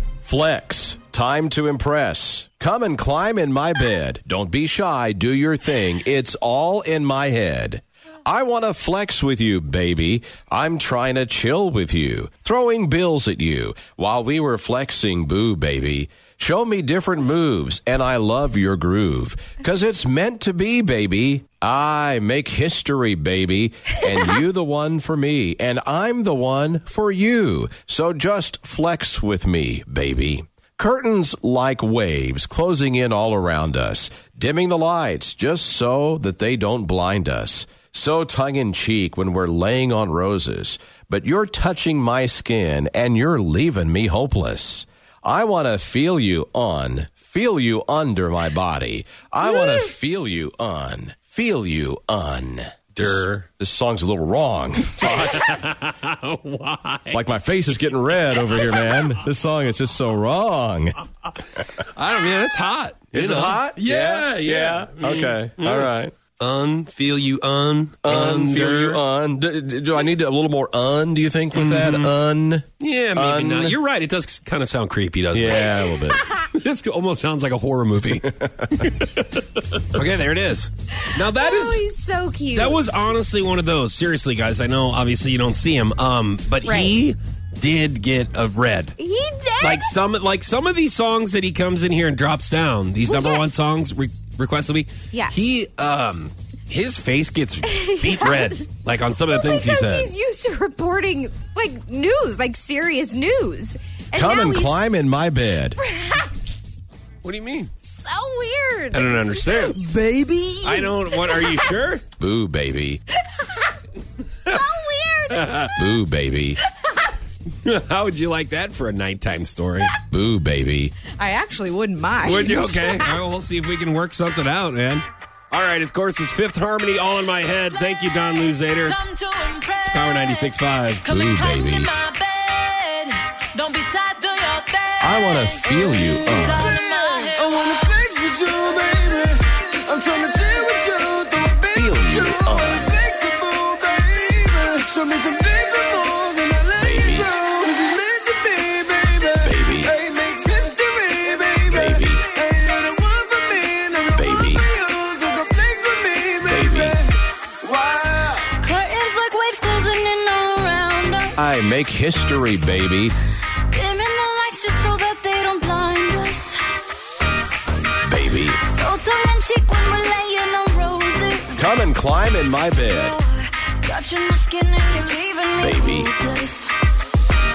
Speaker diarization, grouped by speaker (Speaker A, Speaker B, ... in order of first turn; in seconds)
Speaker A: 0.2-55.6, 57.1-61.0, 63.1-66.1, 68.0-73.8, 75.3-76.2, 78.3-78.9, 104.1-105.8, 112.2-113.0, 115.8-116.6, 120.1-121.0, 131.1-131.9, 135.0-136.8, 141.7-143.0, 146.8-147.3, 149.4-149.9, 151.7-152.3, 154.1-154.7, 156.4-157.0, 161.4-163.1, 168.0-168.6, 171.6-173.2, 175.6-176.1
Speaker B: 53.0-53.5, 55.0-57.2, 58.5-59.1, 61.7-69.0, 71.5-72.1, 72.8-75.7, 76.4-81.8, 82.5-89.0, 89.6-100.1, 107.2-107.7, 108.9-109.8, 110.6-112.0, 115.3-115.7, 117.6-120.0, 122.2-129.0, 129.8-131.1
Speaker C: 81.2-83.1, 86.7-87.0, 89.0-89.9, 93.0-93.5, 97.7-98.6, 99.3-104.8, 105.5-106.4, 107.9-111.8, 113.3-113.8, 114.5-115.8, 121.1-123.2
Speaker D: 128.8-137.6, 158.5-161.7, 163.7-166.8, 168.6-171.8, 172.8-176.8
Speaker E: 136.6-158.5